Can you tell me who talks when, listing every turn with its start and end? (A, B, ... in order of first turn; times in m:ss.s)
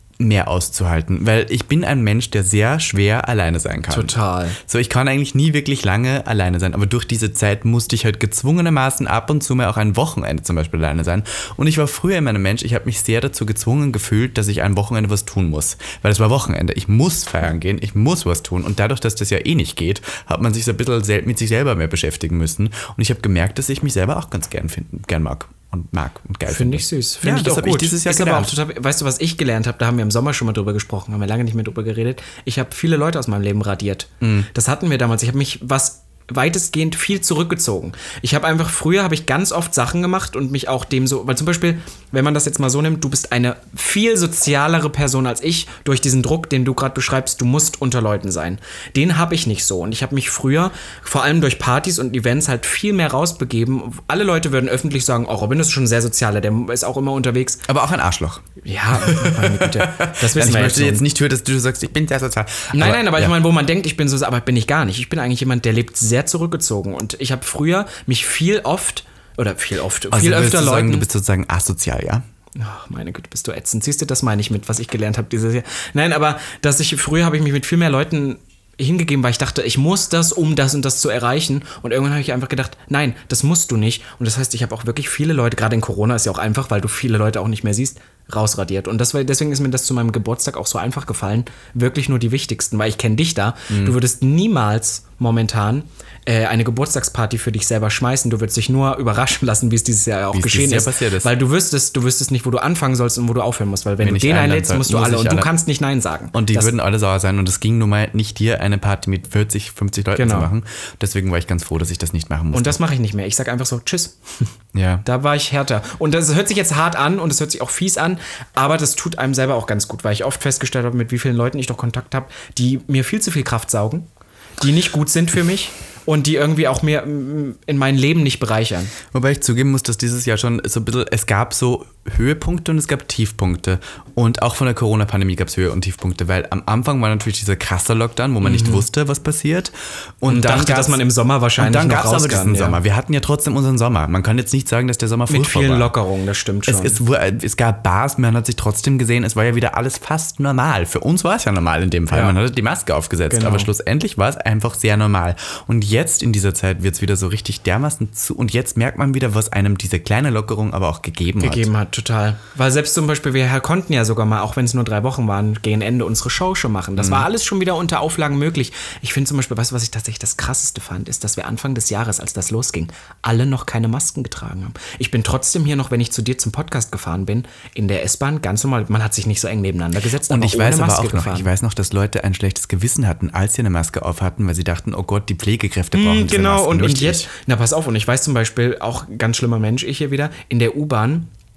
0:00.2-0:28.5 A
0:03.9-0:04.6 B
0:26.5-0:57.6 B
0:34.2-0:34.5 A
0:57.7-1:03.4 A
0:58.6-1:01.0 B
1:02.7-1:11.1 B
1:10.1-1:12.2 A
1:12.6-1:46.7 B
1:33.7-1:34.0 A
1:40.3-1:41.3 A
1:44.0-1:45.5 A
1:46.3-1:52.8 A
1:50.1-1:50.5 B
1:52.5-1:54.5 B
1:54.7-1:55.0 A
1:55.0-2:04.1 B
2:04.6-2:08.9 B
2:09.1-2:21.0 A
2:18.4-2:18.8 B
2:20.3-2:22.8 B
2:21.6-2:25.9 A
2:25.3-2:27.0 B
2:26.7-2:41.7 A
2:32.1-2:32.4 B
2:33.3-2:33.7 B
2:41.4-3:01.5 B
2:47.0-2:47.3 A
3:00.3-3:07.3 A
3:05.9-3:11.3 B